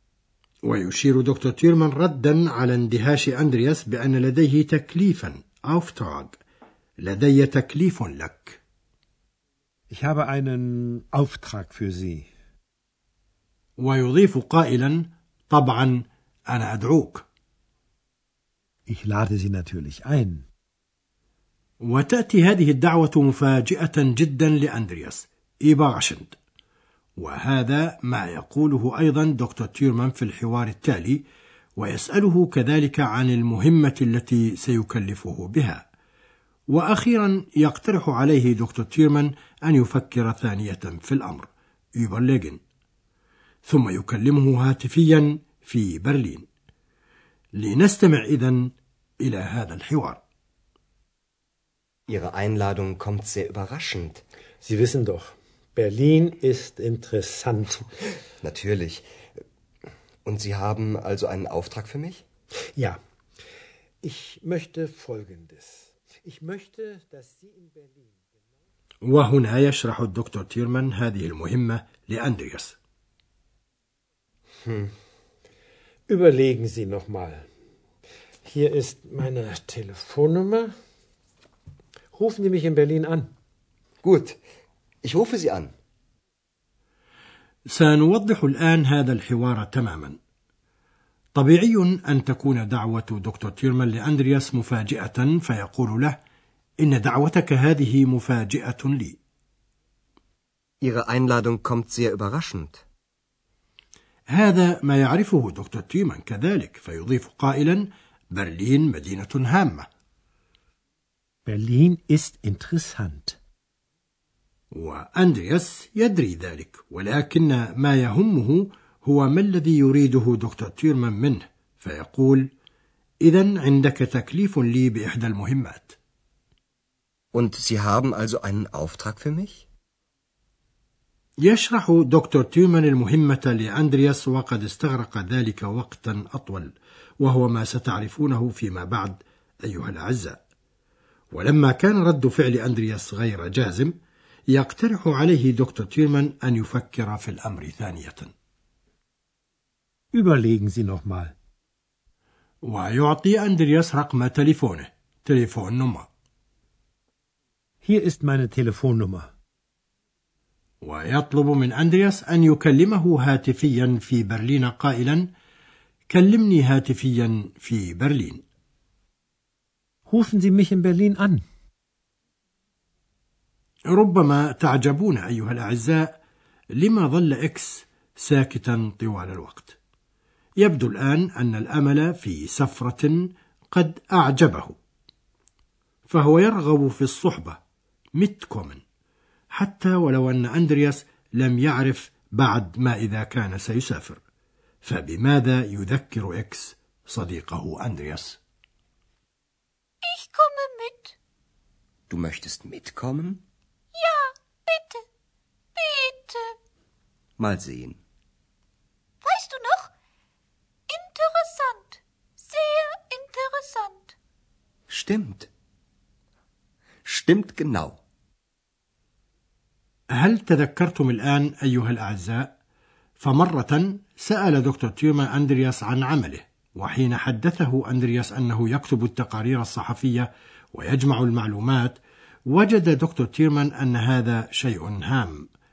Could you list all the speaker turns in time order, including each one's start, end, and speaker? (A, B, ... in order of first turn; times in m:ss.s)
0:00.6-0:06.4 A
0:07.0-0:08.6 A
0:09.9-0:12.3 B
0:13.8-0:17.2 A
0:18.9-0:20.4 B
0:21.8-0:26.4 A
0:27.2-0:31.2 A
0:31.8-0:35.9 A
0:36.7-0:42.6 A
0:43.6-0:46.4 A
0:47.5-0:50.2 A
0:52.1-0:54.2 C
0:54.6-0:57.9 B
0:58.4-0:59.1 C
1:00.2-1:02.2 C
1:04.0-1:08.2 B
1:09.0-1:12.8 A
1:14.6-1:14.9 C
1:16.1-1:17.5 B
1:18.4-1:20.7 B
1:22.1-1:23.3 B
1:24.0-1:24.4 C
1:25.0-1:25.7 C
1:27.7-1:30.2 A
1:31.3-1:36.2 A
1:36.8-1:39.2 A
1:40.8-1:42.8 C
1:44.3-1:49.9 A
1:51.4-1:53.4 B
1:54.7-2:02.5 A
2:03.2-2:06.0 A
2:07.3-2:09.6 C
2:11.4-2:20.4 A
2:21.3-2:23.9 A
2:24.5-2:28.3 A
2:30.1-2:31.3 B
2:32.6-2:36.1 A
2:37.8-2:39.3 B
2:40.8-2:45.3 A
2:46.1-2:48.4 A
2:50.1-2:51.4 B
2:53.9-2:56.2 A
2:56.7-2:59.8 A
3:00.6-3:04.8 A
3:06.1-3:07.6 A
3:08.2-3:08.8 A
3:09.5-3:14.2 A
3:14.8-3:18.4 A
3:20.0-3:21.1 D
3:22.1-3:23.4 C
3:23.9-3:25.0 D
3:25.8-3:26.5 D
3:27.4-3:28.0 C
3:29.2-3:29.9 D
3:30.9-3:34.1 D
3:34.9-3:35.5 C
3:37.0-3:38.0 C
3:40.1-3:42.5 A
3:43.2-3:55.5 A